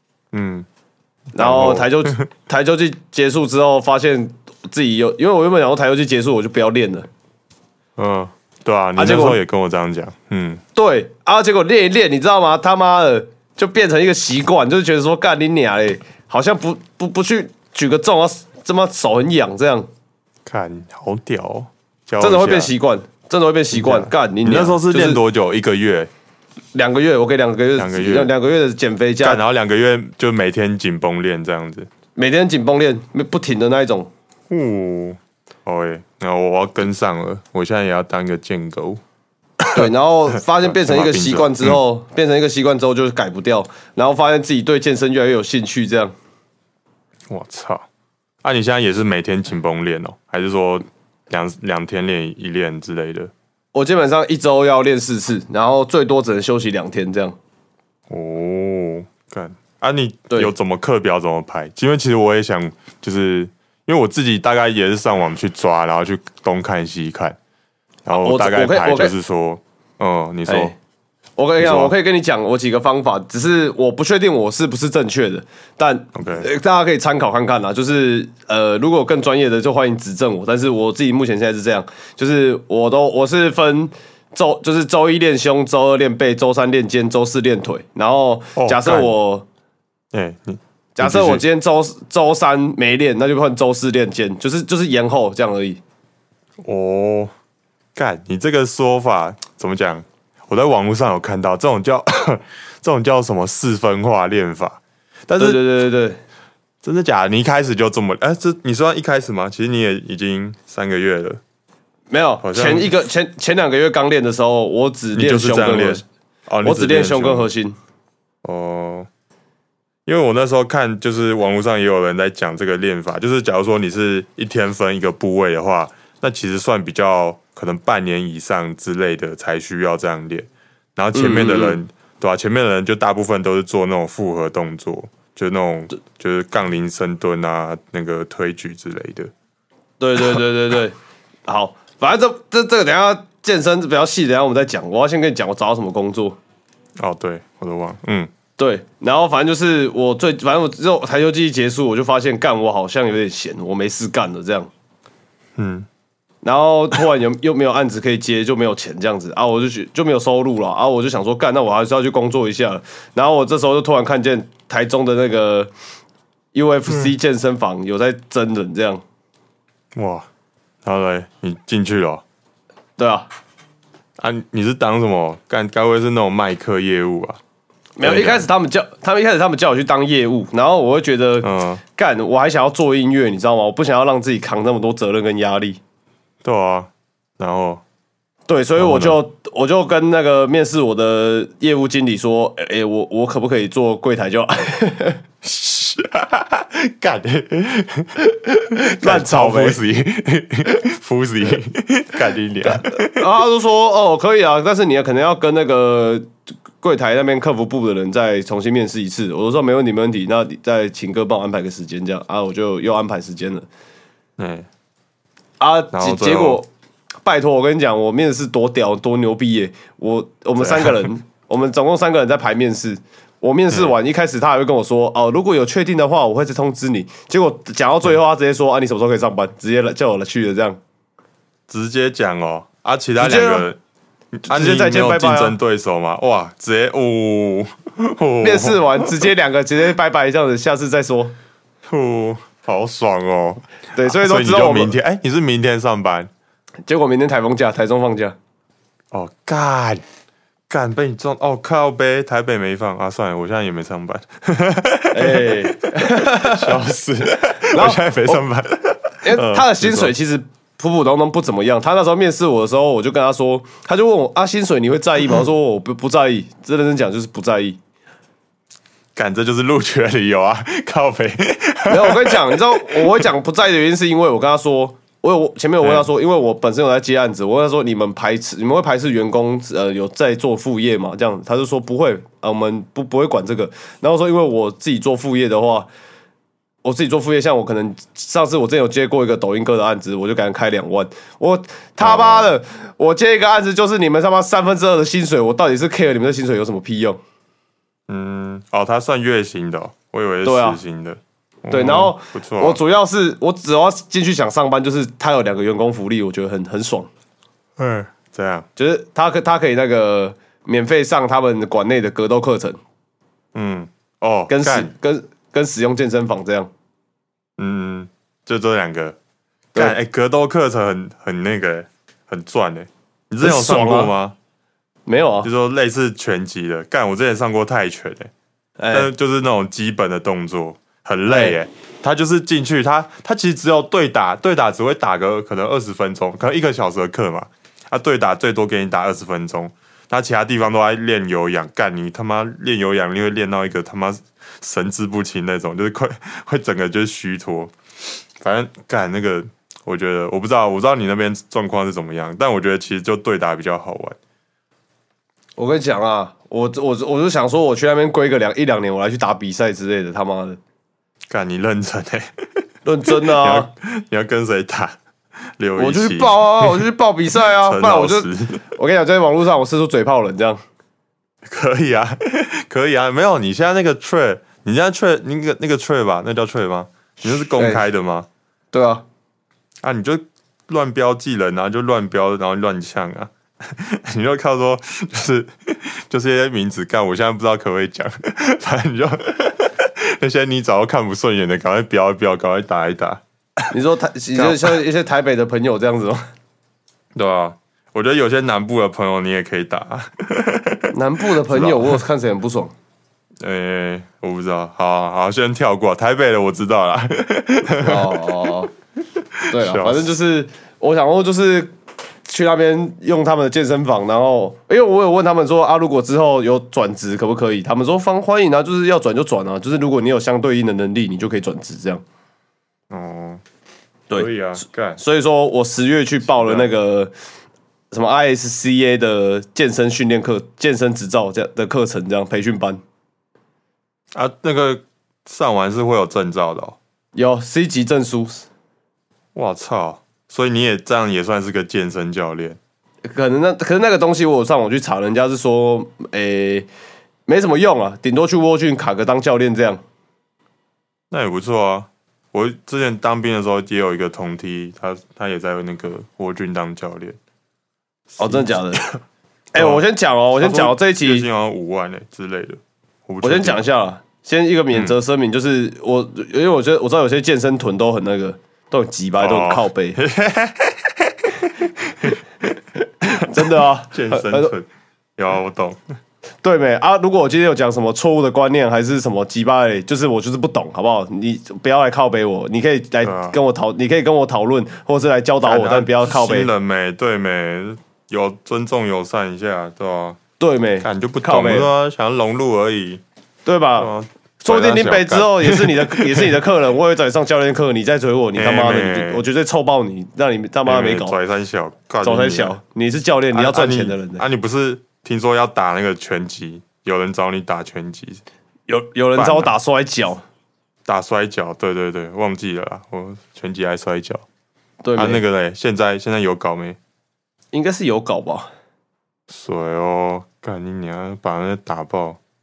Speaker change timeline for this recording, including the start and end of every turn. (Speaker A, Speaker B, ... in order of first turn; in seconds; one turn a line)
Speaker A: 0.3-0.7
Speaker A: 1.3-2.3
Speaker B: 1.4-7.1
Speaker A: 8.0-10.6
Speaker B: 9.0-9.4
Speaker B: 10.8-19.9
Speaker A: 20.5-22.7
Speaker B: 22.2-25.2
Speaker A: 23.7-26.1
Speaker B: 26.7-29.4
Speaker A: 27.8-28.3
Speaker A: 29.2-31.9
Speaker B: 32.2-34.1
Speaker A: 34.5-39.0
Speaker B: 39.7-46.1
Speaker A: 40.5-41.8
Speaker A: 47.3-47.9
Speaker A: 48.4-53.3
Speaker B: 53.7-57.4
Speaker A: 58.1-67.4
Speaker A: 68.1-70.7
Speaker B: 68.2-69.1
Speaker B: 70.5-70.8
Speaker B: 71.4-89.5
Speaker A: 71.6-71.9
Speaker A: 76.1-76.5
Speaker A: 88.6-89.2
Speaker A: 90.1-91.4
Speaker B: 91.0-95.8
Speaker A: 96.6-97.3
Speaker A: 98.0-105.6
Speaker B: 105.4-106.2
Speaker A: 106.8-111.4
Speaker B: 112.1-116.0
Speaker A: 112.4-112.9
Speaker A: 115.1-117.5
Speaker B: 116.6-117.8
Speaker A: 118.4-119.1
Speaker A: 120.1-139.3
Speaker B: 131.2-131.8
Speaker B: 140.0-140.9
Speaker B: 141.5-146.4
Speaker A: 147.0-148.3
Speaker B: 148.6-154.7
Speaker A: 155.6-155.9
Speaker B: 156.4-165.7
Speaker B: 166.5-169.0
Speaker A: 170.0-170.3
Speaker A: 170.8-172.2
Speaker B: 173.0-173.3
Speaker A: 174.2-177.4
Speaker B: 178.0-185.8
Speaker A: 178.0-178.5
Speaker A: 181.4-181.8
Speaker A: 186.4-187.8
Speaker B: 188.5-195.2
Speaker A: 188.8-189.2
Speaker A: 195.4-203.2
Speaker B: 199.0-199.8
Speaker B: 202.7-213.7
Speaker A: 214.4-214.7
Speaker B: 215.6-216.7
Speaker A: 215.9-216.6
Speaker B: 217.2-230.8
Speaker A: 220.6-221.1
Speaker A: 231.7-233.8
Speaker B: 233.2-233.7
Speaker A: 234.3-239.2
Speaker B: 234.5-235.6
Speaker B: 238.4-241.3
Speaker A: 241.9-246.3
Speaker B: 243.9-244.9
Speaker B: 246.8-248.4
Speaker A: 249.1-250.0
Speaker A: 250.7-260.1
Speaker B: 255.1-256.8
Speaker B: 257.7-258.4
Speaker B: 259.2-267.8
Speaker A: 269.2-273.2
Speaker B: 271.9-285.9
Speaker A: 275.8-276.1
Speaker B: 286.8-297.2
Speaker A: 292.0-292.6
Speaker A: 298.1-302.8
Speaker B: 300.4-300.8
Speaker B: 301.7-307.1
Speaker A: 307.8-308.7
Speaker B: 308.8-312.8
Speaker A: 313.6-314.9
Speaker B: 314.5-316.7
Speaker A: 317.6-319.2
Speaker A: 319.8-324.4
Speaker B: 323.4-324.1
Speaker B: 325.1-325.5
Speaker A: 325.4-328.3
Speaker B: 328.8-329.1
Speaker A: 328.9-347.7
Speaker B: 331.3-331.6
Speaker A: 348.4-354.2
Speaker B: 355.6-360.6
Speaker A: 361.3-362.3
Speaker B: 362.9-363.7
Speaker A: 363.1-365.0
Speaker A: 365.6-366.9
Speaker B: 365.8-370.6
Speaker A: 367.4-368.7
Speaker A: 371.4-378.3
Speaker B: 377.2-377.8
Speaker B: 378.7-379.1
Speaker A: 379.8-393.2
Speaker B: 393.7-396.2
Speaker A: 394.4-394.7
Speaker A: 397.2-402.0
Speaker B: 400.9-402.7
Speaker A: 403.4-408.3
Speaker B: 407.8-408.7
Speaker A: 409.3-410.1
Speaker B: 409.5-411.7
Speaker B: 412.2-422.0
Speaker A: 422.9-423.4
Speaker A: 424.1-425.0
Speaker B: 425.0-427.1
Speaker A: 426.3-426.7
Speaker B: 427.9-432.8
Speaker A: 434.1-436.8
Speaker B: 437.1-438.5
Speaker A: 439.4-442.6
Speaker B: 443.1-446.7
Speaker B: 447.3-449.8
Speaker A: 451.1-457.2
Speaker A: 458.1-459.0
Speaker B: 458.2-458.8
Speaker B: 459.5-461.3
Speaker A: 459.6-463.6
Speaker B: 463.2-470.0
Speaker A: 469.2-475.8
Speaker B: 473.1-474.5
Speaker B: 476.4-486.5
Speaker A: 483.0-483.4
Speaker A: 485.4-490.2
Speaker B: 490.4-491.7
Speaker A: 490.8-493.0
Speaker B: 493.4-493.9
Speaker A: 493.8-496.3
Speaker B: 494.4-501.2
Speaker A: 498.4-499.2
Speaker A: 500.7-502.6
Speaker B: 502.0-504.2
Speaker A: 503.3-508.2
Speaker B: 508.7-510.2
Speaker A: 509.1-509.5
Speaker A: 510.9-514.2
Speaker B: 514.8-515.2
Speaker A: 515.0-516.8
Speaker B: 517.5-518.5
Speaker A: 519.3-522.2